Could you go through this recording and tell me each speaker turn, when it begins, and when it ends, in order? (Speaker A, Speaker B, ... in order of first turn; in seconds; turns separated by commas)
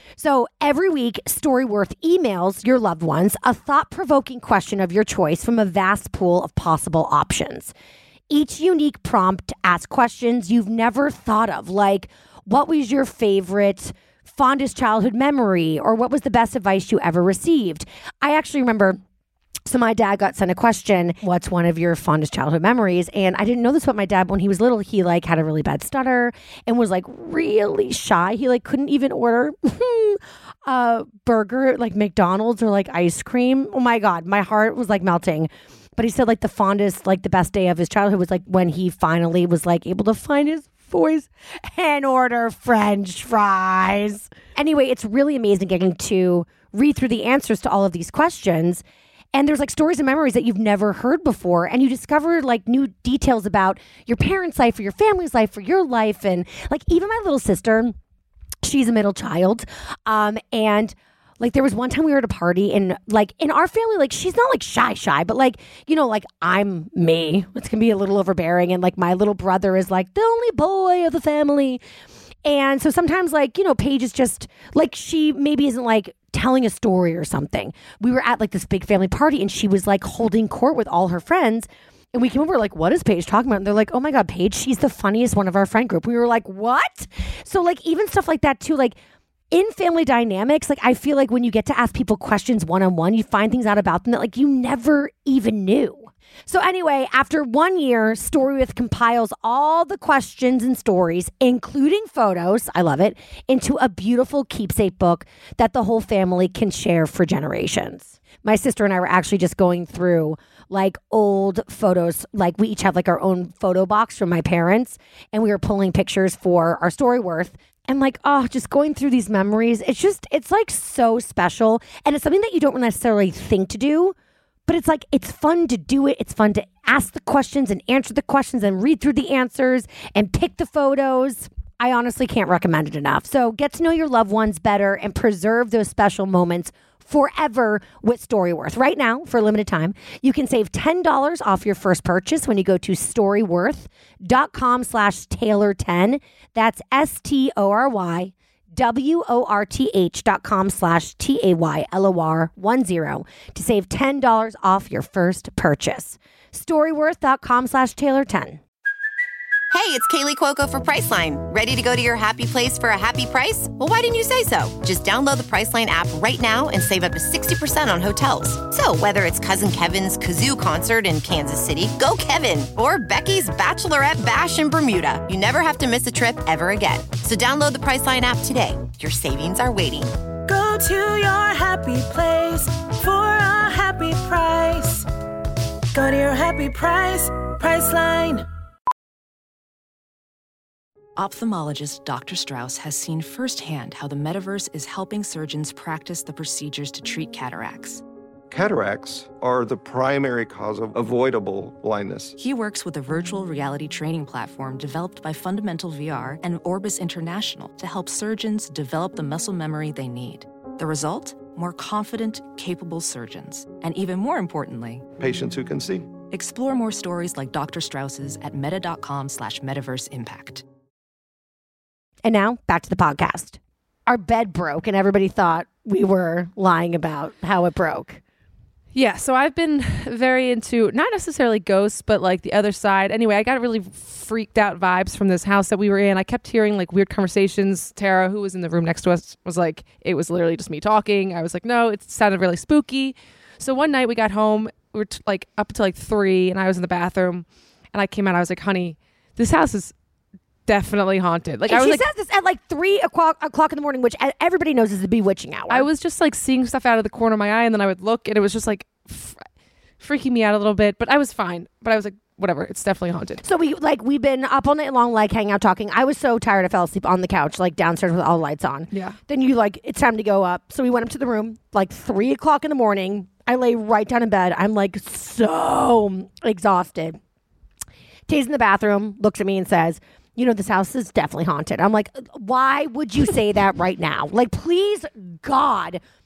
Speaker A: 0.2-7.7, Speaker A: 8.3-19.0, Speaker A: 19.6-48.8, Speaker A: 49.3-57.9, Speaker A: 58.6-71.8, Speaker A: 72.4-89.0, Speaker A: 89.5-124.1, Speaker A: 124.7-158.6, Speaker B: 159.7-180.1, Speaker C: 180.4-185.1, Speaker C: 185.9-188.4, Speaker D: 191.2-198.0, Speaker E: 198.5-202.3, Speaker D: 202.4-215.1, Speaker E: 215.2-216.1, Speaker D: 216.3-220.6, Speaker A: 222.2-228.2, Speaker F: 228.9-249.9, Speaker F: 250.7-252.1, Speaker A: 251.7-255.9, Speaker F: 255.7-259.4, Speaker F: 260.0-263.4, Speaker A: 263.4-277.2, Speaker F: 268.9-269.2, Speaker A: 278.3-286.0